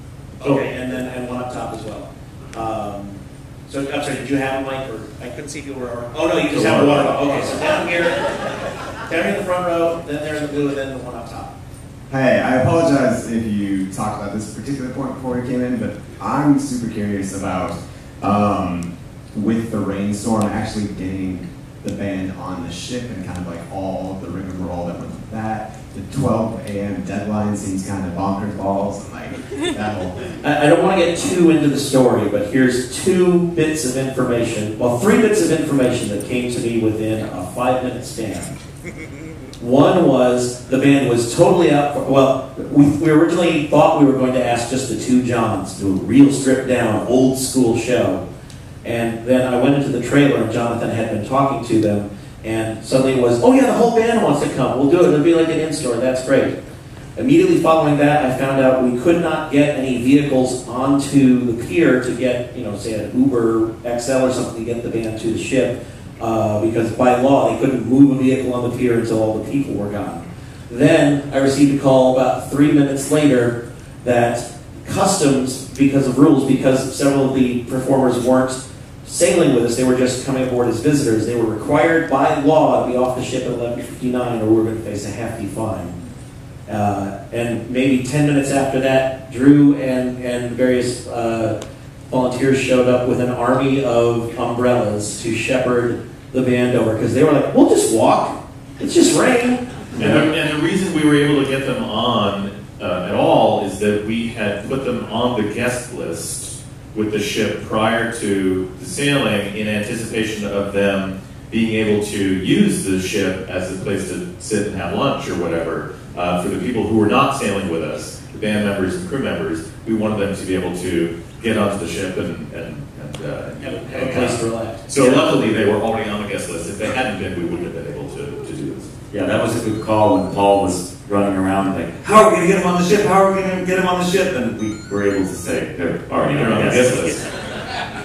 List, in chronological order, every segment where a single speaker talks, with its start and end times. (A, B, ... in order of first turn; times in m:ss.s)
0:00.4-0:03.2 A
0:03.7-0:11.5 A
0:06.5-0:07.0 B
0:12.1-0:30.3 C
0:30.4-0:38.5 A
0:39.6-0:48.2 A
0:48.8-0:56.6 A
0:57.2-1:25.9 A
1:26.7-1:31.5 A
1:32.1-1:40.2 A
1:40.0-2:08.9 B
2:03.6-2:05.2 A
2:09.1-2:17.1 D
2:16.2-2:17.2 B